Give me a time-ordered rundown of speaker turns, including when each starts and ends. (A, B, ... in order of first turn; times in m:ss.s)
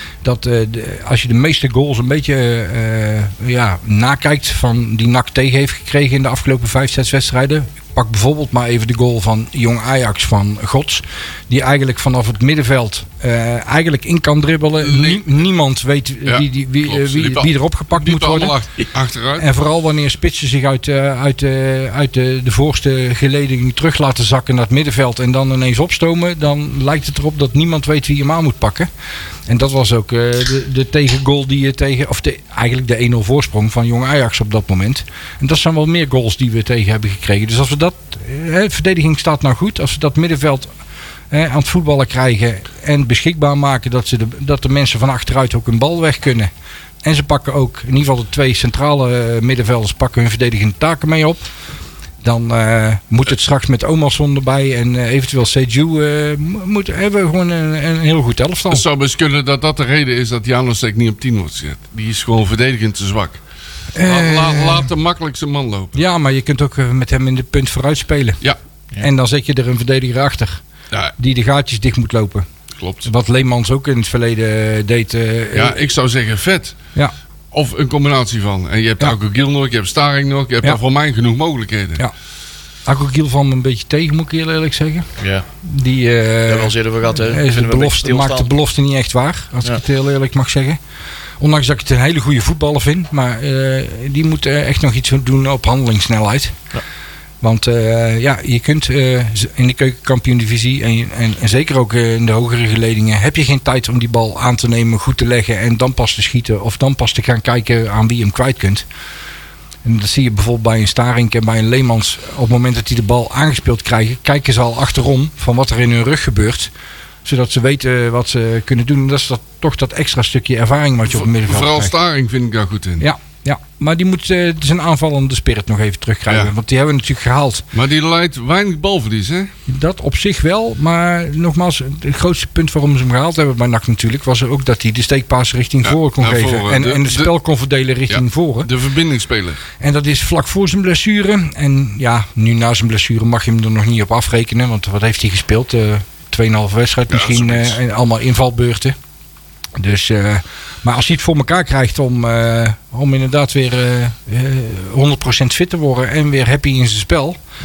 0:00.2-0:18.6 A
0:14.8-0:15.2 B
0:16.2-0:19.5 B
0:19.4-0:28.9 A
0:29.5-0:40.7 A
0:41.3-0:46.5 A
0:47.0-0:51.5 A
0:52.2-0:58.8 A
0:58.7-1:03.4 B
1:03.9-1:04.9 A
1:04.0-1:06.0 B
1:05.9-1:08.4 A
1:09.0-1:10.6 A
1:11.2-1:12.4 A
1:12.8-1:13.1 B
1:13.0-1:15.8 A
1:15.5-1:16.8 B
1:17.5-1:22.0 B
1:22.8-1:25.1 A
1:25.2-1:25.5 C
1:25.6-1:30.8 A
1:26.4-1:28.5 C
1:31.4-1:36.6 A
1:37.4-1:48.8 A
1:49.8-1:56.7 A
1:57.2-2:01.9 A
2:01.1-2:03.0 B
2:03.0-2:07.6 A
2:07.7-2:09.5 B
2:09.7-2:18.7 A
2:15.8-2:17.3 B
2:18.1-2:19.6 B
2:19.8-2:29.0 A
2:27.1-2:27.8 B
2:29.8-2:37.4 A